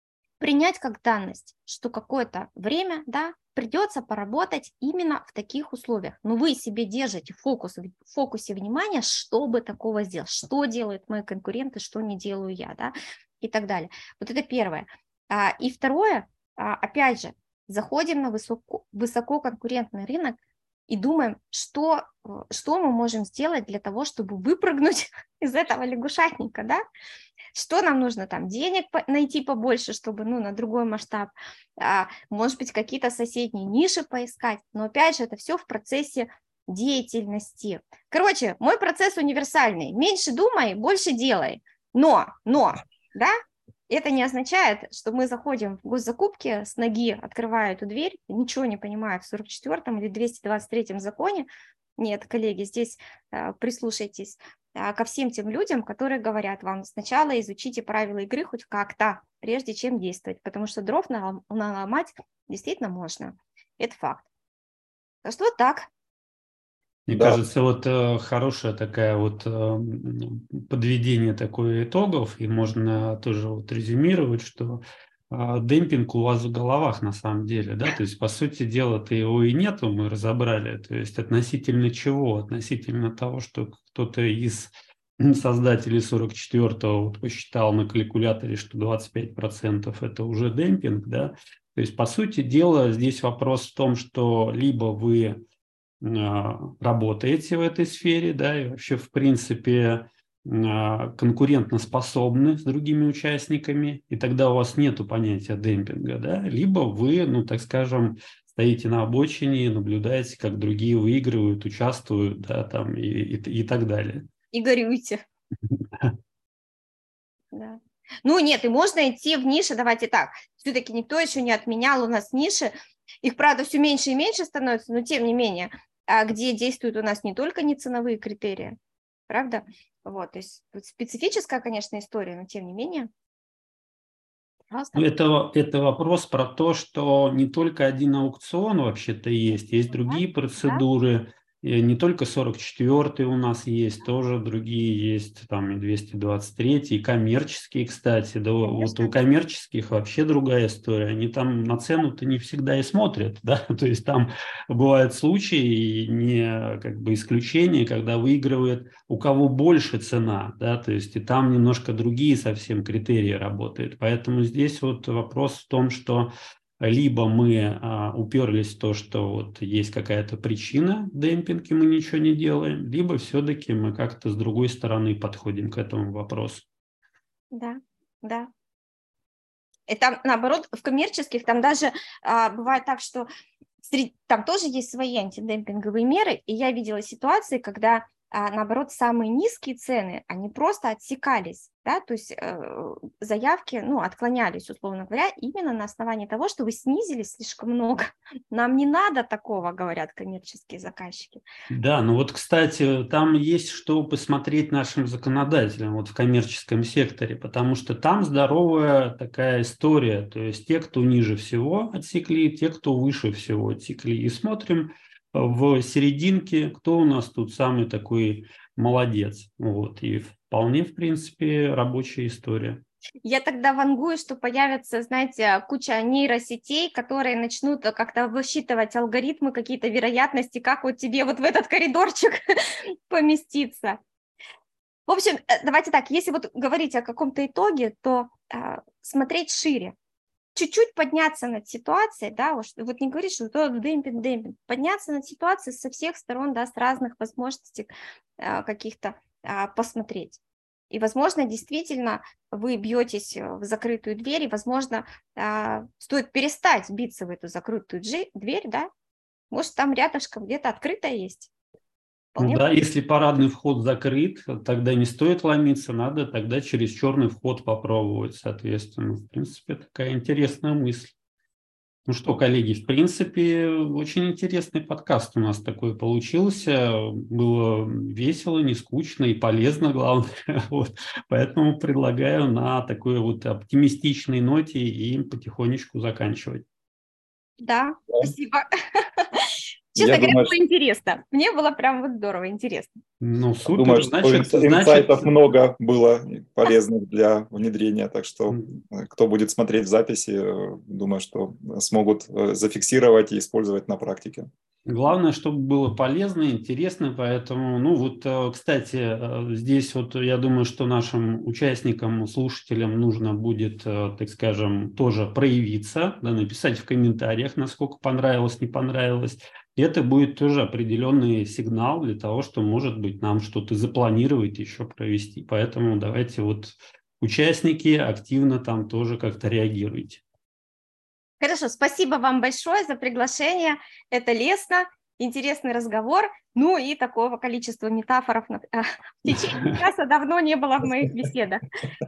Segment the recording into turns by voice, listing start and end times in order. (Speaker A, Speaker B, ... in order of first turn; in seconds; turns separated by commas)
Speaker A: 0.4-20.4, Speaker A: 20.9-26.8, Speaker A: 27.5-43.4, Speaker A: 43.9-64.3, Speaker A: 65.2-65.9, Speaker B: 67.1-95.4, Speaker C: 67.1-67.4, Speaker B: 96.0-114.3, Speaker A: 114.5-115.2, Speaker B: 115.8-116.1, Speaker A: 117.5-128.8, Speaker A: 129.3-133.1, Speaker A: 134.7-135.1, Speaker B: 134.9-176.7, Speaker A: 139.9-140.8, Speaker A: 148.7-149.2, Speaker A: 177.5-178.5, Speaker A: 179.9-183.3, Speaker A: 183.8-201.4, Speaker B: 201.7-222.8, Speaker A: 223.2-234.0, Speaker A: 235.1-239.9, Speaker A: 240.6-250.4, Speaker A: 250.9-258.9, Speaker A: 259.5-261.5, Speaker A: 262.4-262.6, Speaker B: 262.4-271.1, Speaker B: 272.1-286.6, Speaker A: 287.6-292.9, Speaker C: 290.0-290.6, Speaker B: 293.2-295.3, Speaker C: 293.7-304.5, Speaker B: 298.5-298.8, Speaker B: 304.9-330.2, Speaker A: 331.4-341.6